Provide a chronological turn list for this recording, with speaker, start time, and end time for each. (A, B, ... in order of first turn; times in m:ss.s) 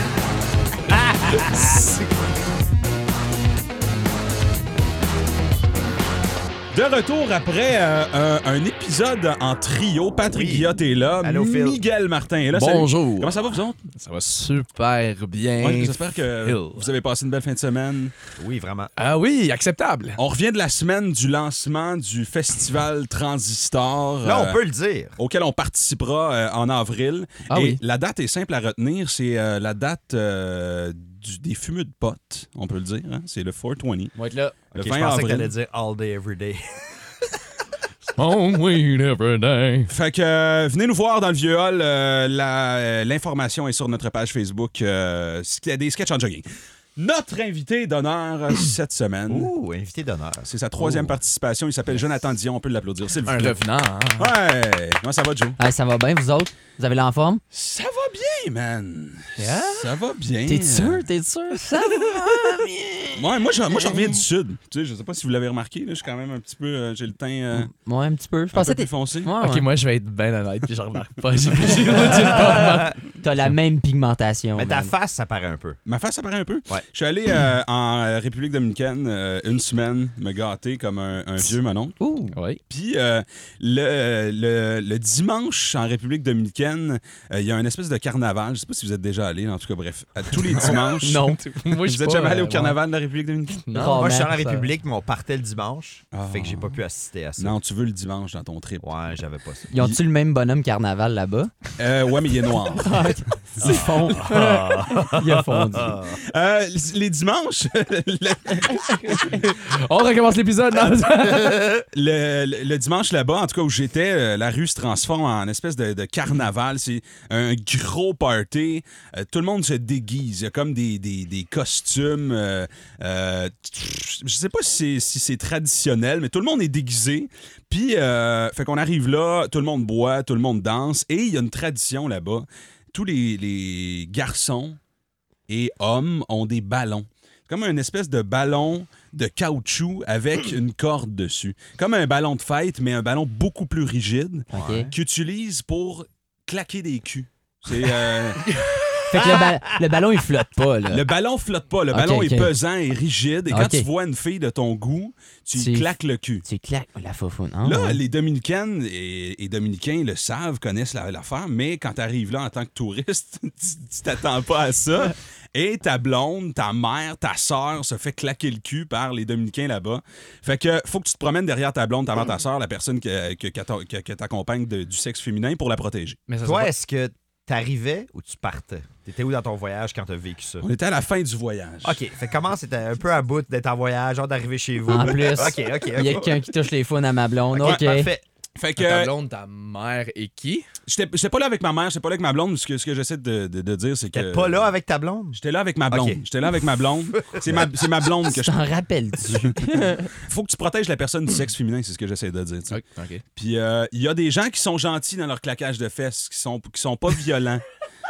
0:00.9-0:02.0 A
0:01.4-0:01.8 B
0:06.7-0:13.8 B
0:10.3-0:11.8 A
0:12.5-0:13.4 C
0:13.9-0:16.9 C
0:15.6-0:18.2 B
0:18.4-0:18.9 A
0:19.0-0:20.2 C
0:20.2-0:24.6 B
0:24.2-0:25.2 A
0:25.2-0:34.1 B
0:27.5-0:27.8 C
0:34.2-0:34.5 D
0:34.7-0:36.8 A
0:34.7-0:35.5 B
0:38.1-0:39.9 C
0:39.9-0:46.4 B
0:47.0-0:49.5 B
0:49.3-0:50.9 A
0:50.4-0:53.6 B
0:53.2-0:54.3 C
0:54.2-0:55.6 B
0:55.6-0:57.4 D
0:57.5-1:01.0 B
0:59.4-0:59.9 C
1:00.4-1:04.2 D
1:03.1-1:07.7 B
1:07.6-1:09.7 D
1:08.5-1:09.3 B
1:09.4-1:13.0 C
1:13.2-1:14.9 D
1:14.5-1:15.8 A
1:15.8-1:22.0 B
1:21.4-1:22.4 D
1:22.3-1:22.6 C
1:22.7-1:31.3 B
1:30.3-1:32.8 C
1:30.6-1:31.4 D
1:31.8-1:33.7 B
1:33.6-1:34.4 C
1:33.7-1:34.7 D
1:33.8-1:37.6 A
1:36.1-1:36.8 B
1:37.4-1:38.9 B
1:38.8-1:39.7 A
1:39.7-1:41.5 D
1:39.7-1:40.0 B
1:41.8-1:44.0 B
1:42.7-1:46.0 D
1:43.6-1:46.2 A
1:44.1-1:44.8 C
1:46.2-1:49.4 B
1:49.0-1:51.8 C
1:50.9-2:14.8 B
2:15.5-2:28.4 B
2:24.5-2:24.9 D
2:24.5-2:25.0 A
2:29.1-2:31.1 D
2:29.1-2:29.6 A
2:30.9-2:36.4 B
2:31.9-2:32.5 D
2:33.5-2:33.9 D
2:35.6-2:35.9 D
2:36.4-2:38.0 D
2:37.6-2:56.2 B
2:56.3-2:56.7 C
2:56.4-3:00.7 A
3:00.6-3:02.0 B
3:01.8-3:06.5 A
3:04.9-3:08.1 D
3:07.5-3:08.2 A
3:08.6-3:09.1 B
3:08.8-3:10.6 C
3:10.9-3:14.7 B
3:14.1-3:16.2 A
3:15.4-3:18.7 B
3:17.2-3:17.9 A
3:18.2-3:20.1 D
3:19.2-3:22.8 B
3:22.7-3:23.2 C
3:23.4-3:27.6 B